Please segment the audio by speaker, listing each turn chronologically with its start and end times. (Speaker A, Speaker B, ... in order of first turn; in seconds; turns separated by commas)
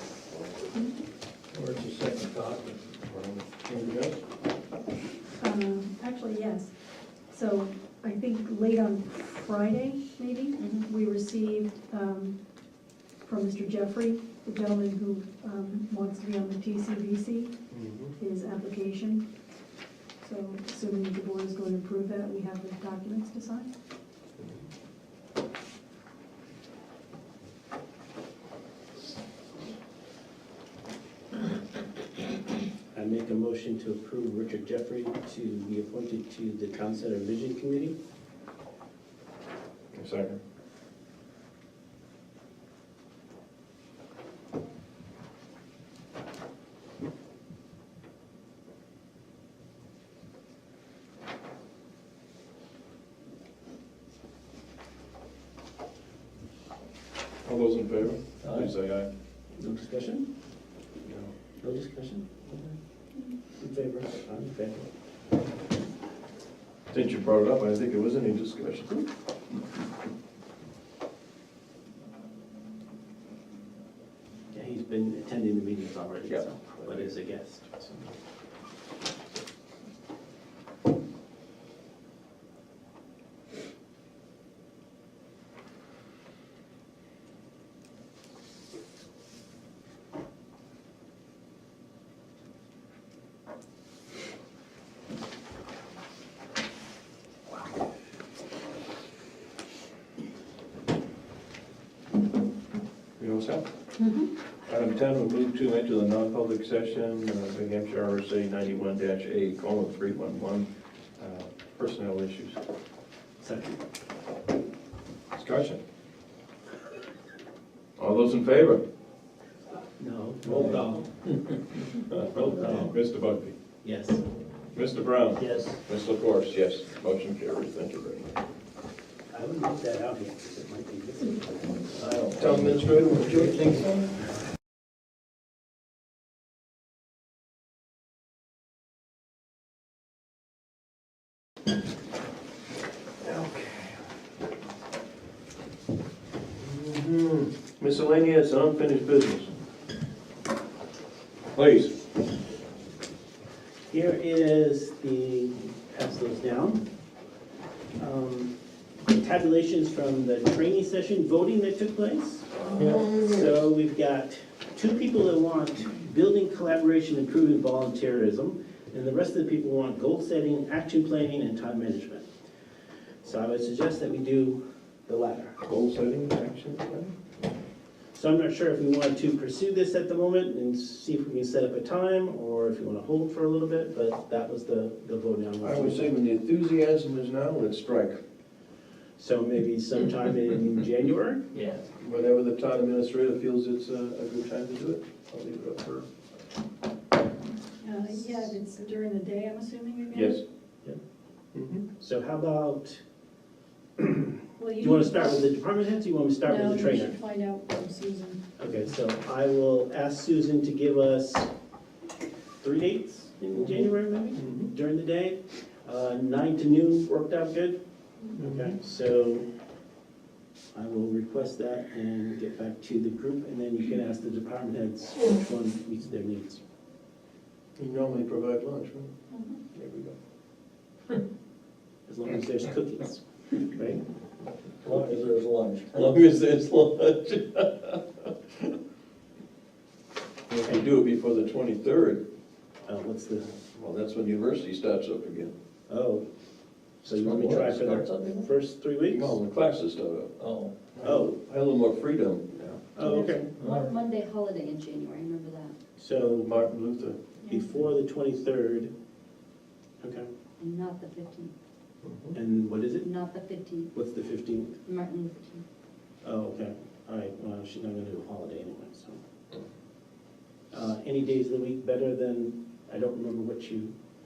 Speaker A: 1.5-3.4, Speaker B: 3.6-4.2, Speaker C: 5.4-6.7, Speaker C: 7.3-12.4, Speaker D: 10.6-10.9, Speaker C: 13.2-17.5, Speaker B: 17.7-18.1, Speaker C: 18.2-19.2, Speaker C: 20.2-23.7, Speaker E: 32.9-38.0, Speaker B: 39.9-40.4, Speaker B: 57.4-59.1, Speaker A: 58.4-58.7, Speaker E: 59.5-60.3, Speaker B: 61.0-61.3, Speaker E: 61.6-62.4, Speaker E: 63.6-64.8, Speaker B: 66.9-69.1, Speaker E: 74.5-78.0, Speaker B: 76.3-77.1, Speaker B: 103.2-103.6, Speaker D: 104.0-104.3, Speaker B: 104.7-112.6, Speaker E: 113.4-113.8, Speaker B: 115.3-115.8, Speaker B: 118.0-118.8, Speaker E: 120.0-121.1, Speaker A: 120.5-120.8, Speaker B: 122.0-123.5, Speaker E: 122.3-122.9, Speaker E: 123.8-124.2, Speaker B: 124.7-128.3, Speaker E: 125.4-125.8, Speaker E: 129.3-131.7, Speaker A: 131.9-134.1, Speaker B: 132.3-133.8, Speaker B: 143.2-144.1, Speaker B: 146.6-149.5, Speaker B: 151.5-151.9, Speaker E: 153.9-156.8, Speaker E: 158.0-158.5, Speaker E: 159.1-172.3, Speaker B: 162.8-163.1, Speaker E: 173.2-175.6, Speaker B: 175.6-177.1, Speaker E: 178.1-186.1, Speaker B: 185.6-188.2, Speaker E: 189.2-191.4, Speaker A: 191.5-191.8, Speaker B: 192.0-196.1, Speaker C: 197.8-200.4, Speaker B: 200.1-200.4, Speaker B: 201.5-201.8, Speaker E: 202.0-203.0, Speaker E: 204.0-207.2, Speaker C: 204.6-205.5, Speaker C: 206.4-208.4, Speaker E: 208.6-211.5, Speaker E: 212.6-217.8, Speaker B: 213.5-214.7, Speaker E: 218.3-219.4, Speaker B: 218.3-218.7, Speaker E: 220.7-226.6, Speaker B: 227.8-229.1, Speaker D: 229.3-229.6, Speaker B: 229.7-230.1, Speaker E: 232.1-234.0, Speaker A: 234.8-236.0, Speaker B: 235.9-238.7, Speaker B: 240.5-242.2, Speaker E: 242.8-243.6, Speaker B: 243.7-245.5, Speaker E: 245.9-246.3, Speaker E: 247.0-249.4, Speaker A: 247.2-248.5, Speaker B: 249.1-250.4, Speaker A: 250.4-250.9, Speaker B: 250.9-252.8, Speaker E: 251.0-251.3, Speaker E: 252.9-253.5, Speaker D: 253.0-255.7, Speaker A: 253.6-253.9, Speaker E: 256.0-256.5, Speaker B: 256.1-257.2, Speaker E: 257.5-258.9, Speaker E: 260.0-260.3, Speaker D: 260.6-261.5, Speaker B: 262.0-262.4, Speaker E: 262.3-263.1, Speaker D: 263.0-263.9, Speaker E: 263.9-264.8, Speaker D: 264.9-265.6, Speaker E: 266.2-269.2, Speaker E: 270.7-273.9